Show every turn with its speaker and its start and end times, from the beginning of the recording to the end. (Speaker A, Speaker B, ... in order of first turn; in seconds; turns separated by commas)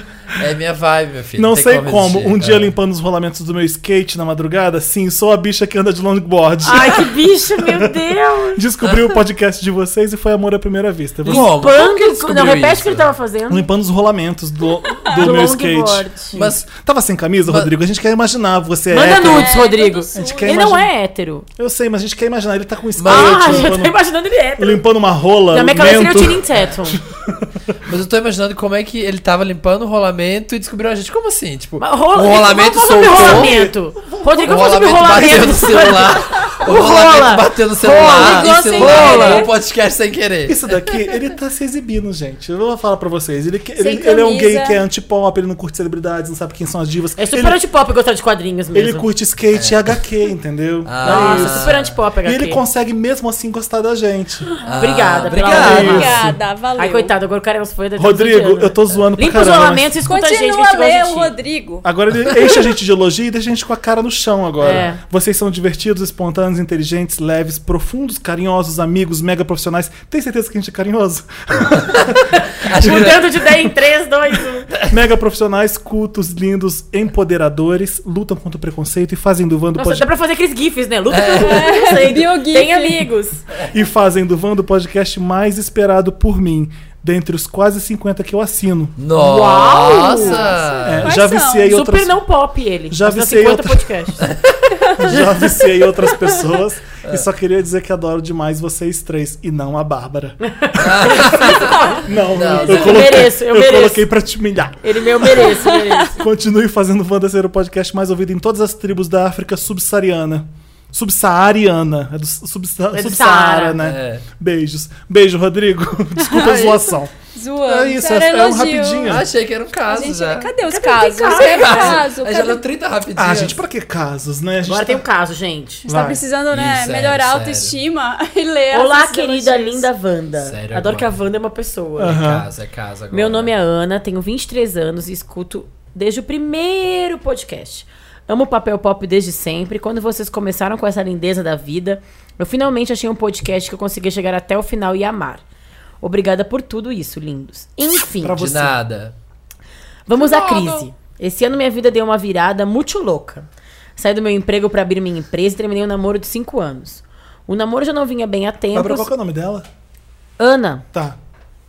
Speaker A: 0.3-2.7, Speaker B: 1.4-8.0, Speaker C: 6.6-8.6, Speaker B: 8.5-11.5, Speaker A: 11.2-13.1, Speaker C: 11.2-13.7, Speaker B: 13.5-19.6, Speaker D: 15.0-15.3, Speaker C: 15.2-16.4, Speaker A: 16.3-16.6, Speaker A: 17.5-17.7, Speaker C: 18.9-21.4, Speaker D: 19.1-20.6, Speaker B: 20.1-20.9, Speaker B: 21.6-24.0, Speaker A: 23.0-23.7, Speaker C: 23.0-24.8, Speaker B: 24.6-27.7, Speaker C: 25.5-27.0, Speaker A: 27.9-33.6, Speaker C: 31.8-39.5, Speaker B: 33.0-34.4, Speaker A: 34.4-41.1, Speaker D: 38.0-39.5, Speaker B: 38.8-39.4, Speaker B: 40.4-47.6, Speaker D: 43.8-44.8, Speaker C: 47.2-49.1, Speaker B: 48.7-54.5, Speaker A: 49.5-49.9, Speaker A: 50.8-51.9, Speaker C: 51.0-52.6, Speaker A: 54.6-56.3, Speaker C: 54.7-56.2, Speaker D: 55.2-57.1, Speaker B: 55.4-56.4, Speaker C: 56.8-61.3, Speaker B: 58.0-60.0, Speaker D: 60.0-61.8, Speaker B: 61.8-72.2, Speaker C: 64.6-65.0, Speaker A: 71.8-73.3, Speaker C: 72.3-74.7, Speaker B: 72.8-73.2, Speaker B: 74.9-80.1, Speaker C: 79.7-83.4, Speaker A: 81.1-81.7, Speaker D: 81.4-83.1, Speaker B: 83.7-89.0, Speaker A: 89.0-91.1, Speaker C: 89.1-90.5, Speaker D: 90.0-91.8, Speaker B: 90.8-92.2, Speaker C: 91.6-94.2, Speaker B: 92.9-94.2, Speaker A: 94.2-94.5, Speaker B: 95.0-100.4, Speaker C: 95.1-95.6, Speaker C: 100.4-102.0, Speaker A: 100.8-103.3, Speaker B: 101.0-117.1, Speaker C: 102.5-104.0, Speaker C: 104.8-106.2, Speaker D: 105.7-105.9, Speaker C: 112.9-113.8, Speaker A: 113.8-114.2, Speaker D: 116.3-116.6, Speaker A: 116.3-116.9, Speaker D: 117.3-119.2, Speaker B: 117.6-119.3, Speaker A: 119.0-120.5, Speaker D: 119.8-122.6, Speaker C: 120.7-122.0, Speaker A: 121.3-123.6, Speaker B: 123.1-125.0, Speaker C: 124.6-125.8, Speaker B: 125.8-126.2, Speaker D: 125.8-129.9, Speaker A: 126.5-127.7, Speaker C: 128.7-132.2, Speaker A: 130.4-131.1, Speaker B: 132.0-132.5, Speaker A: 132.1-133.5, Speaker C: 133.1-145.4, Speaker C: 146.0-148.5, Speaker B: 148.2-148.7, Speaker A: 148.3-149.1, Speaker C: 150.1-153.4, Speaker A: 150.1-150.8, Speaker C: 154.0-159.1, Speaker B: 158.7-159.7, Speaker C: 160.4-160.8, Speaker B: 160.9-161.2